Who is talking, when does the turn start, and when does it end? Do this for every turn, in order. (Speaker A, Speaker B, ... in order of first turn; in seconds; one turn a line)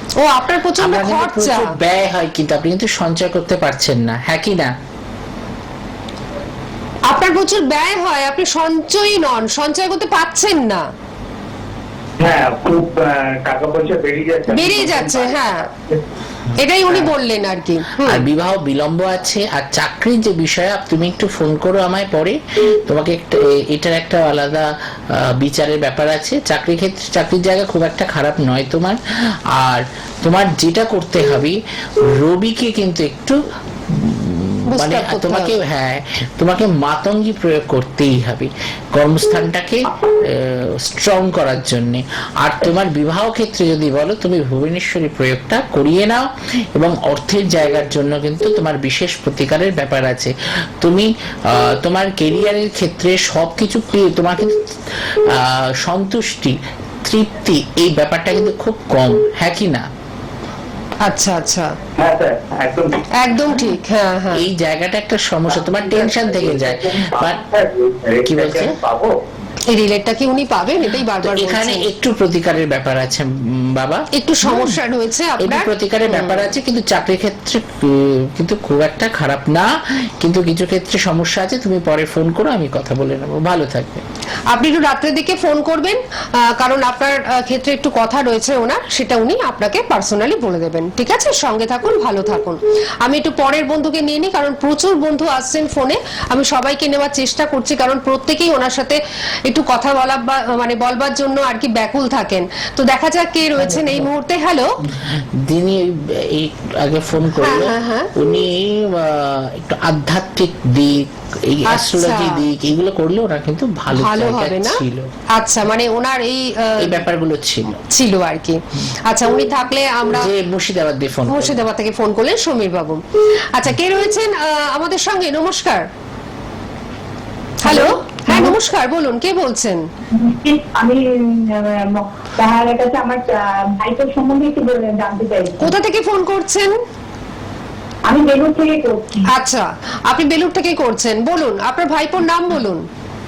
Speaker A: 0.2-1.7
Speaker B: 0.8-4.8
Speaker A: 7.1-10.9
Speaker C: 12.2-16.0
Speaker A: 14.5-15.7
Speaker A: 16.6-18.3
Speaker B: 18.0-29.0
Speaker B: 29.5-31.6
Speaker B: 32.1-59.9
Speaker A: 34.7-35.5
Speaker A: 61.0-61.7
Speaker C: 62.0-63.0
Speaker A: 63.2-64.4
Speaker B: 64.3-67.4
Speaker C: 65.5-69.2
Speaker B: 68.2-68.8
Speaker A: 69.7-71.9
Speaker B: 71.2-74.8
Speaker A: 74.1-76.5
Speaker B: 75.4-84.0
Speaker A: 84.5-104.8
Speaker B: 105.0-115.1
Speaker A: 107.4-108.1
Speaker A: 111.7-112.4
Speaker A: 113.9-114.8
Speaker A: 115.3-117.0
Speaker B: 116.8-117.8
Speaker A: 117.8-120.3
Speaker B: 120.1-121.6
Speaker A: 121.3-123.0
Speaker A: 123.5-125.9
Speaker A: 127.6-129.8
Speaker D: 127.7-128.6
Speaker D: 130.1-135.8
Speaker A: 135.6-136.8
Speaker D: 138.1-139.3
Speaker A: 139.3-142.9